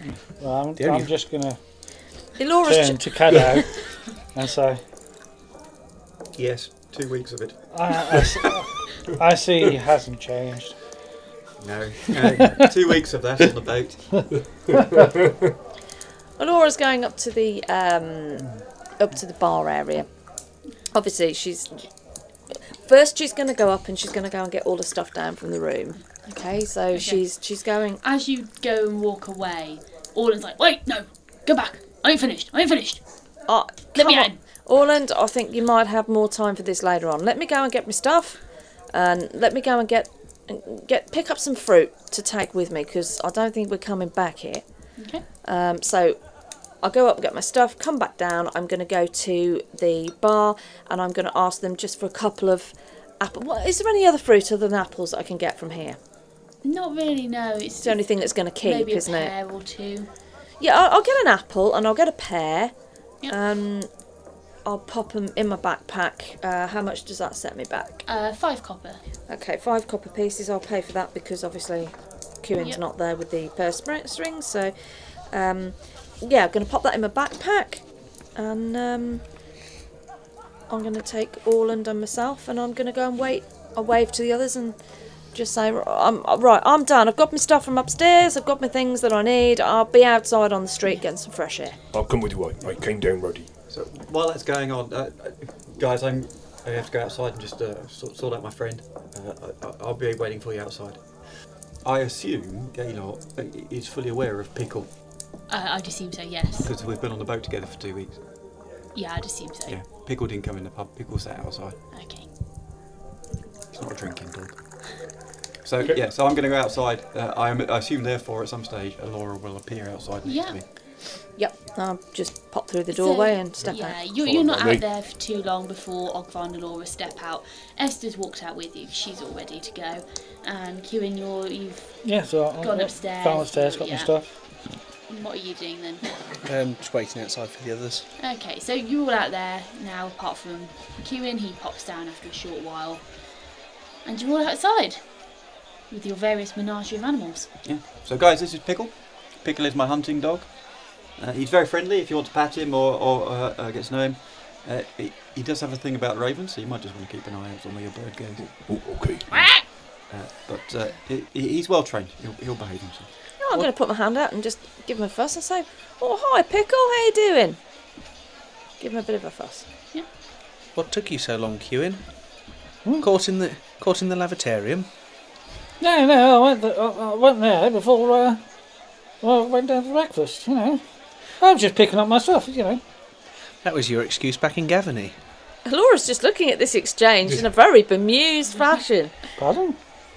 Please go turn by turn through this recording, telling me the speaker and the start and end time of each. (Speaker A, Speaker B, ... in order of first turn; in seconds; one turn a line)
Speaker A: 0.2-1.6
Speaker B: 0.8-1.1
Speaker C: 2.4-3.6
Speaker A: 2.6-4.8
Speaker D: 6.4-8.3
Speaker A: 7.7-10.8
Speaker D: 11.6-14.2
Speaker C: 16.4-20.1
Speaker C: 20.9-21.9
Speaker C: 22.9-28.0
Speaker E: 26.9-27.2
Speaker E: 28.0-33.0
Speaker C: 33.5-38.4
Speaker E: 34.0-34.4
Speaker C: 38.9-44.6
Speaker E: 45.0-45.2
Speaker C: 45.4-46.2
Speaker C: 46.8-56.0
Speaker E: 56.6-58.1
Speaker C: 57.8-59.3
Speaker E: 58.6-60.1
Speaker C: 60.6-62.7
Speaker C: 63.3-63.9
Speaker C: 64.7-68.0
Speaker E: 68.1-69.0
Speaker C: 69.3-74.8
Speaker C: 75.3-79.2
Speaker C: 80.7-84.8
Speaker C: 85.3-91.8
Speaker F: 91.9-93.5
Speaker D: 93.7-101.2
Speaker D: 101.8-104.9
Speaker E: 105.5-106.7
Speaker D: 106.6-108.2
Speaker E: 108.9-109.8
Speaker D: 109.7-111.8
Speaker E: 111.9-112.3
Speaker D: 113.7-115.1
Speaker D: 115.6-120.7
Speaker E: 120.2-120.6
Speaker C: 121.3-124.0
Speaker E: 122.9-134.1
Speaker F: 124.0-124.8
Speaker A: 132.0-134.4
Speaker E: 135.1-136.1
Speaker B: 136.4-138.1
Speaker E: 138.2-143.1
Speaker E: 144.1-145.3
Speaker E: 145.9-147.5
Speaker D: 147.6-158.5
Speaker F: 158.4-159.3
Speaker D: 159.3-163.1
Speaker C: 163.4-167.6
Speaker C: 168.8-169.7
Speaker B: 170.8-172.1
Speaker B: 173.0-174.9
Speaker A: 175.8-178.4
Speaker A: 179.2-180.8
Speaker A: 181.3-182.8
Speaker B: 183.6-185.2
Speaker C: 185.7-189.2
Speaker A: 189.4-189.8